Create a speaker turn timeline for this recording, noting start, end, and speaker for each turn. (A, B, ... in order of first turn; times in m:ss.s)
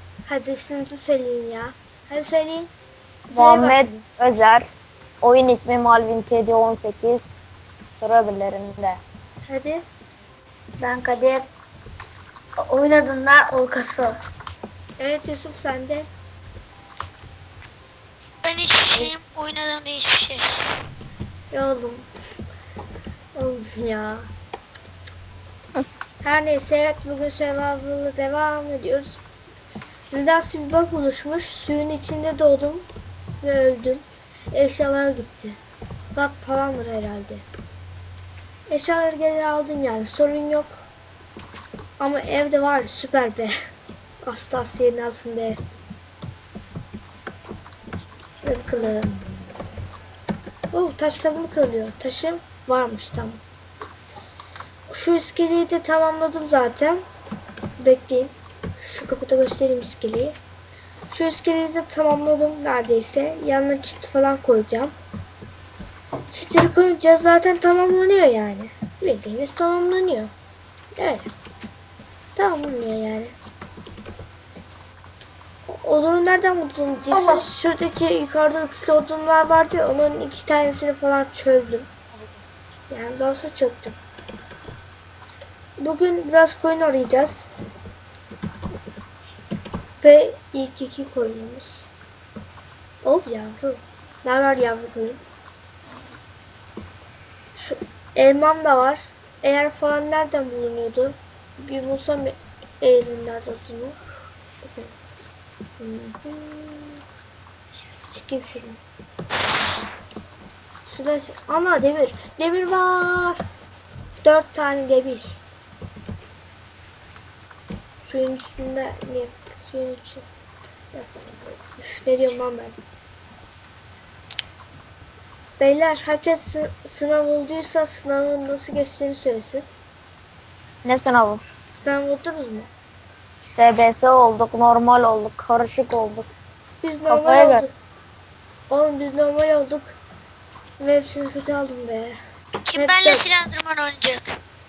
0:00.3-0:02.7 A
0:03.3-0:04.7 B
0:03.3-0:04.0 A
0:05.2-0:07.4 B
0:07.9-0:09.0 B
0:09.5-0:09.8 A
0:10.8-0:11.5 C
0:12.6-0:14.2 C
0:15.0-0:16.1 A
0:18.4-0:20.6 D
0:21.5-0:22.1 A
0:23.4-0:24.3 A
0:26.2-0:29.2 A
0:30.1-0:32.9 A
0:33.4-0:35.6 A
0:36.2-0:37.4 A
0:38.7-0:40.8 A
0:42.0-0:43.6 A
0:44.3-0:45.6 A
0:48.4-0:49.2 A
0:50.7-0:53.4 A
0:54.9-0:57.0 A
0:57.8-1:00.4 A
1:01.1-1:04.9 A
1:06.3-1:10.3 A
1:11.0-1:11.3 A
1:12.4-1:13.4 A
1:15.7-1:21.9 A
1:17.1-1:17.5 C
1:22.9-1:24.0 A
1:25.8-1:27.5 A
1:30.0-1:31.9 A
1:33.0-1:35.2 A
1:37.6-1:44.0 A
1:44.6-1:44.9 A
1:45.8-1:47.0 A
1:48.1-1:48.8 A
1:50.9-1:53.4 A
1:54.2-1:55.4 A
1:58.0-2:00.3 A
2:00.9-2:02.8 A
2:05.6-2:09.7 A
2:10.8-2:11.4 B
2:11.7-2:12.7 A
2:13.4-2:16.3 B
2:16.8-2:17.7 A
2:17.1-2:17.6 B
2:18.7-2:20.0 A
2:20.8-2:22.2 A
2:22.6-2:24.4 D
2:22.7-2:23.3 A